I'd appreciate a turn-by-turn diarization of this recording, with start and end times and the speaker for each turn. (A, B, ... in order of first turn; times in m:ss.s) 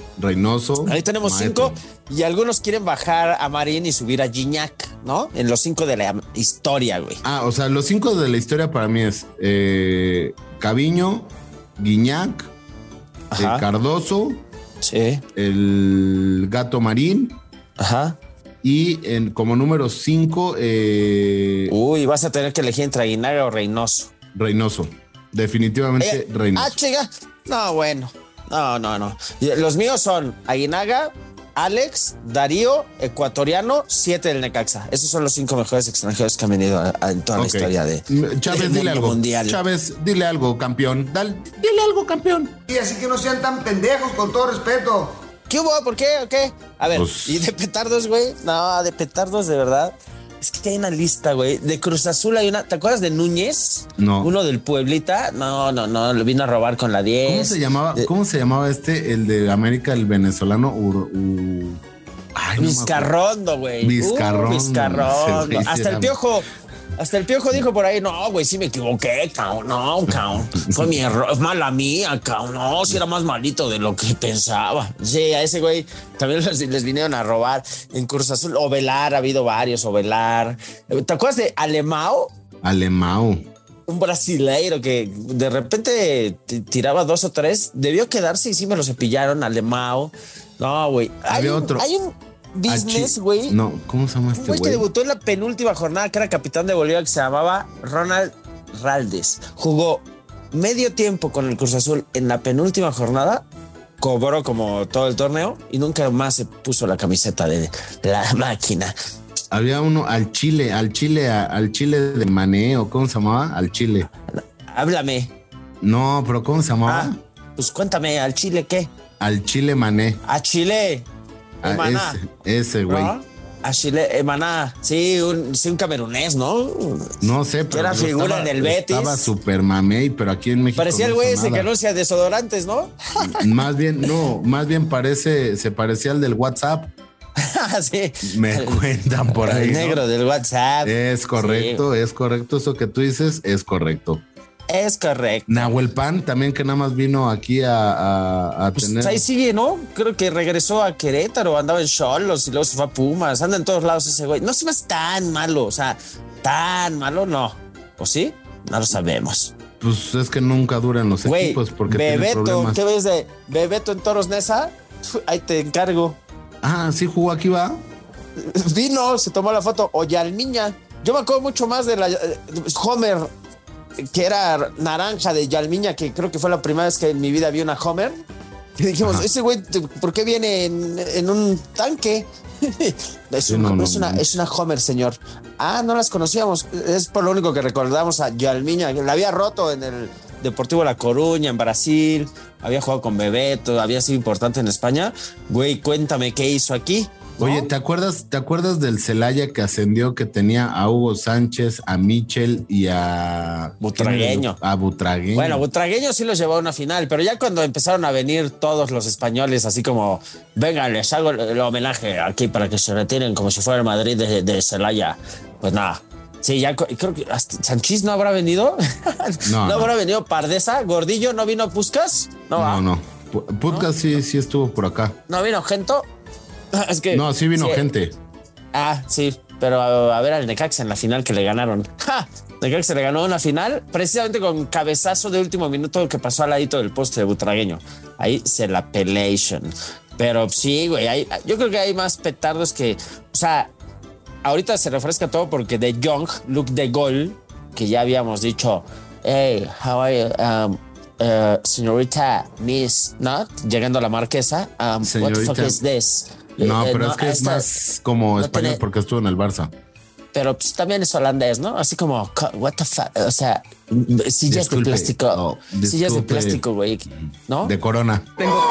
0:00.2-0:01.8 A
0:00.8-0:07.2 B
0:07.2-0:12.5 A
0:13.3-0:13.6 B
0:13.4-0:14.4 A
0:14.8-0:15.2 B
0:15.3-0:17.4 A
0:17.8-0:18.2 B
0:18.6-0:21.7 A
0:21.7-0:24.1 B
0:24.3-0:26.8 A
0:26.0-0:39.6 B
0:37.4-0:42.6 A
0:42.7-0:45.1 C
0:45.5-0:58.1 B
0:46.9-0:47.4 A
0:54.0-0:54.3 A
0:57.2-1:01.8 A
1:02.4-1:03.1 A
1:02.6-1:22.3 B
1:03.8-1:06.1 A
1:10.1-1:10.9 A
1:22.6-1:23.4 A
1:23.9-1:33.6 B
1:31.3-1:31.9 A
1:32.7-1:34.8 A
1:34.4-1:43.4 B
1:44.0-1:48.9 B
1:49.5-1:54.1 A
1:54.3-1:55.3 B
1:55.8-1:57.2 A
1:56.8-1:58.9 B
1:59.2-2:00.2 A
2:00.2-2:01.0 B
2:01.6-2:02.2 B
2:01.6-2:03.1 A
2:02.9-2:07.1 B
2:07.2-2:11.7 A
2:07.7-2:09.3 B
2:10.8-2:13.5 B
2:13.2-2:16.9 A
2:17.4-2:21.8 B
2:18.2-2:20.0 A
2:20.8-2:24.2 A
2:24.7-2:25.7 B
2:25.5-2:29.2 A
2:28.8-2:39.5 B
2:39.8-2:42.8 A
2:41.2-2:46.2 B
2:46.6-2:47.8 A
2:48.4-2:53.3 B
2:54.0-2:58.2 B
2:58.8-3:17.7 B
3:03.5-3:04.3 A
3:17.4-3:25.6 A
3:23.8-3:24.6 B
3:25.3-3:42.8 B
3:39.4-3:39.9 A
3:42.6-3:45.2 A
3:45.3-3:46.1 B
3:46.7-3:47.8 B
3:47.1-3:48.1 A
3:48.7-4:03.7 B
4:04.4-4:17.7 B
4:15.0-4:15.8 A
4:16.6-4:19.7 A
4:18.4-4:18.8 B
4:20.3-4:27.7 B
4:24.5-4:26.6 A
4:27.6-4:28.3 A